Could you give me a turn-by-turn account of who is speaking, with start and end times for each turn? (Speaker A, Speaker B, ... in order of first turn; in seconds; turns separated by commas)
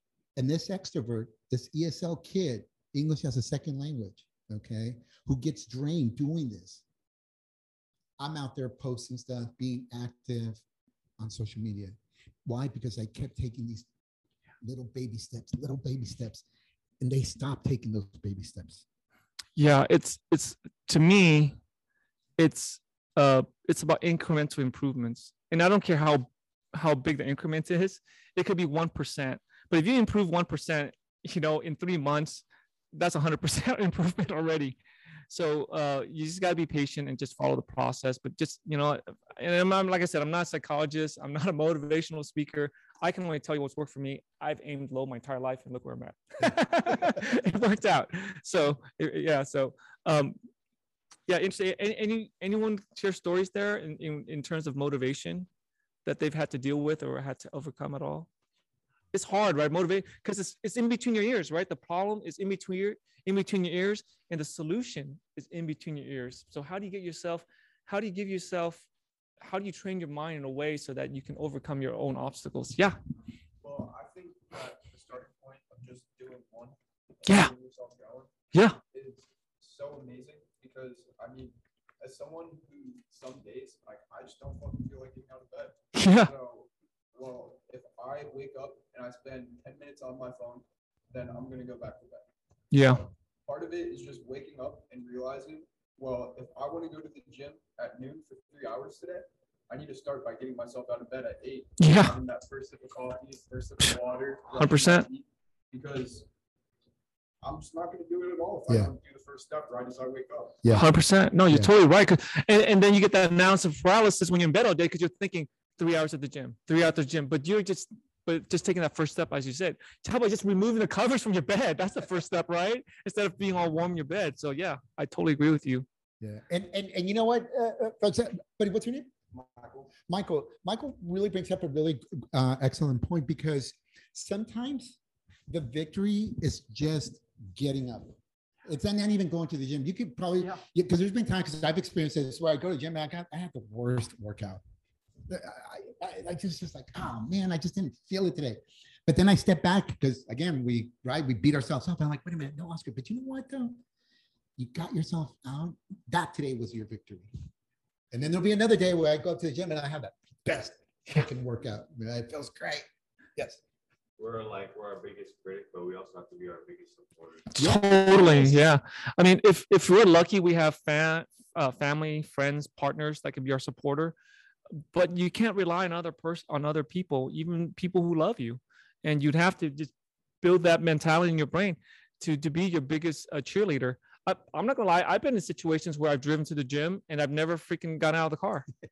Speaker A: 0.4-6.8, Speaker A: 8.2-10.6, Speaker A: 11.2-13.9, Speaker A: 14.6-16.4, Speaker A: 17.0-18.9, Speaker B: 19.6-21.6, Speaker B: 22.4-34.8, Speaker B: 35.3-50.4, Speaker B: 51.3-55.5, Speaker B: 56.0-58.3, Speaker B: 59.1-68.9, Speaker B: 69.4-73.0, Speaker C: 73.6-78.3, Speaker B: 77.3-77.5, Speaker B: 78.5-78.8, Speaker C: 78.9-92.3, Speaker B: 85.9-86.3, Speaker B: 92.7-93.0, Speaker C: 92.8-106.3, Speaker B: 101.8-102.2, Speaker B: 104.5-105.1, Speaker C: 107.4-110.7, Speaker B: 110.7-125.9, Speaker A: 126.2-135.0, Speaker A: 135.5-144.6, Speaker A: 145.3-153.8, Speaker A: 154.6-157.3, Speaker A: 158.1-163.6, Speaker D: 164.2-167.6, Speaker B: 167.5-174.2, Speaker A: 167.6-168.6, Speaker B: 174.7-188.7